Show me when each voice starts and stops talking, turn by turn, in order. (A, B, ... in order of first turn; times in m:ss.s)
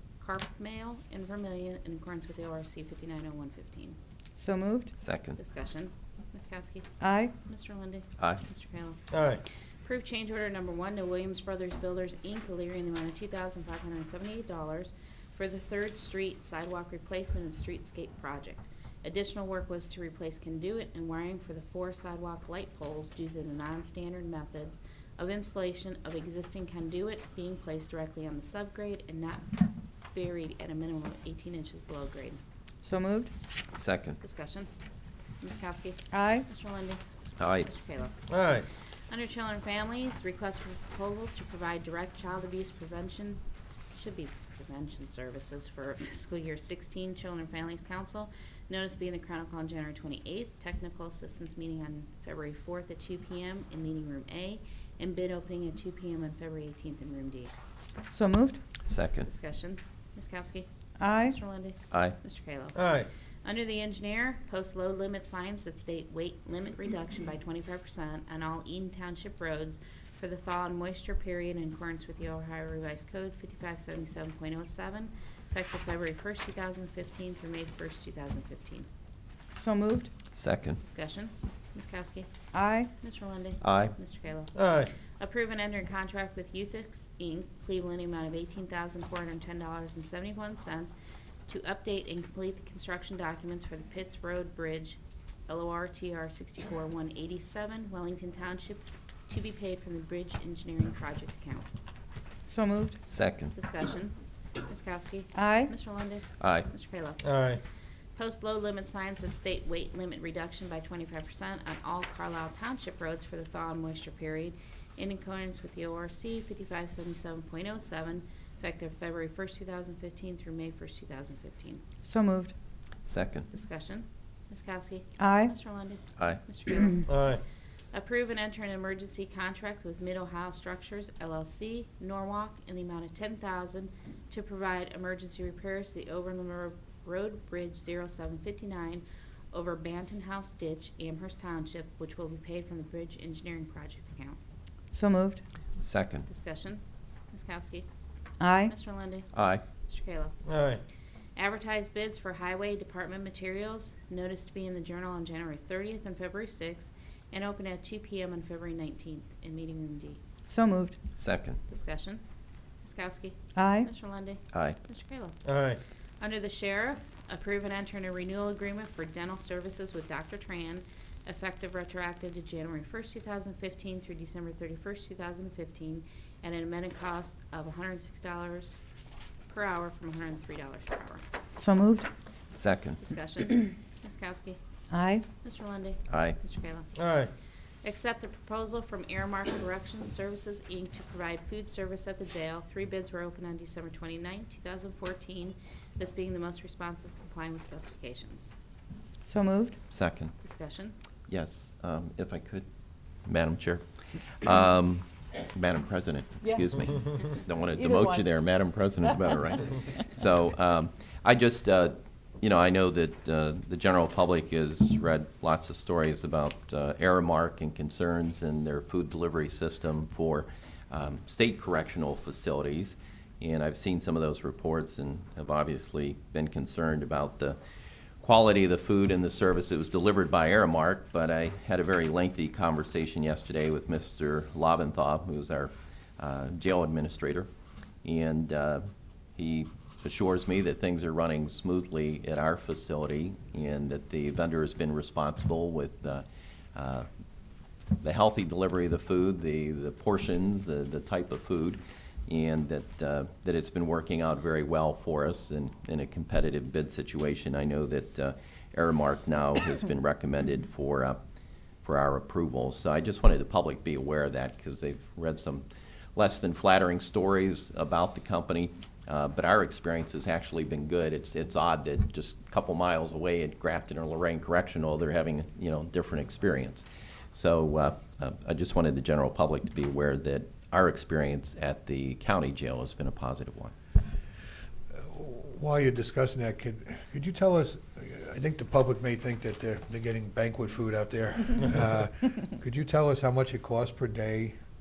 0:00.2-0:04.0 A
0:04.4-0:04.9 B
0:05.0-0:05.4 C
0:05.4-0:09.0 A
0:07.0-0:07.3 B
0:08.2-0:08.4 C
0:09.1-0:09.4 D
0:09.8-0:29.6 A
0:30.1-0:32.4 A
0:32.8-0:33.3 B
0:33.8-0:34.2 C
0:34.2-0:34.7 A
0:35.4-0:37.0 A
0:36.1-0:36.4 B
0:37.4-0:37.7 C
0:37.6-0:38.6 A
0:38.3-0:38.6 D
0:39.1-0:43.4 A
0:43.9-0:57.5 A
0:58.1-0:58.6 B
0:58.8-0:59.3 C
0:59.2-1:02.9 A
1:01.0-1:01.4 B
1:01.9-1:02.2 C
1:02.7-1:03.1 D
1:03.4-1:18.9 A
1:19.5-1:20.1 B
1:20.3-1:20.8 C
1:20.8-1:22.3 A
1:22.5-1:22.9 B
1:23.0-1:30.9 A
1:23.6-1:24.0 C
1:24.5-1:24.9 D
1:31.5-1:41.7 A
1:42.5-1:43.0 B
1:43.1-1:43.5 C
1:43.5-1:44.1 A
1:44.6-1:47.5 A
1:45.3-1:45.7 B
1:46.4-1:46.7 C
1:47.2-1:47.6 D
1:48.2-2:01.8 A
2:02.0-2:02.5 B
2:03.0-2:03.5 C
2:03.5-2:07.3 A
2:05.2-2:05.5 B
2:06.2-2:06.4 C
2:07.1-2:07.4 D
2:07.9-2:24.4 A
2:24.9-2:25.4 B
2:25.8-2:26.3 C
2:26.3-2:27.8 A
2:28.4-2:28.7 B
2:28.6-2:29.3 A
2:29.3-2:29.6 C
2:29.8-2:30.4 A
2:30.4-2:30.8 D
2:31.4-2:40.2 A
2:40.5-2:41.0 B
2:41.2-2:41.6 C
2:41.7-2:42.2 A
2:42.8-2:45.4 A
2:43.5-2:43.9 B
2:44.5-2:44.8 C
2:45.4-2:45.8 D
2:46.2-2:58.8 A
2:59.5-3:01.2 A
3:01.6-3:02.1 B
3:02.5-3:03.0 C
3:03.0-3:04.6 A
3:04.9-3:05.2 B
3:05.4-3:06.9 A
3:06.1-3:06.4 C
3:06.9-3:07.3 D
3:07.8-3:18.5 A
3:19.2-3:19.8 B
3:19.9-3:20.3 C
3:20.4-3:20.9 A
3:21.3-3:22.6 C
3:23.2-3:23.8 C
3:24.4-3:47.6 C
3:27.7-3:28.2 B
3:48.2-3:57.5 C
3:58.0-3:58.8 C
3:59.4-4:07.1 C
4:08.0-4:21.2 C
4:21.8-4:43.7 C
4:45.0-4:54.6 E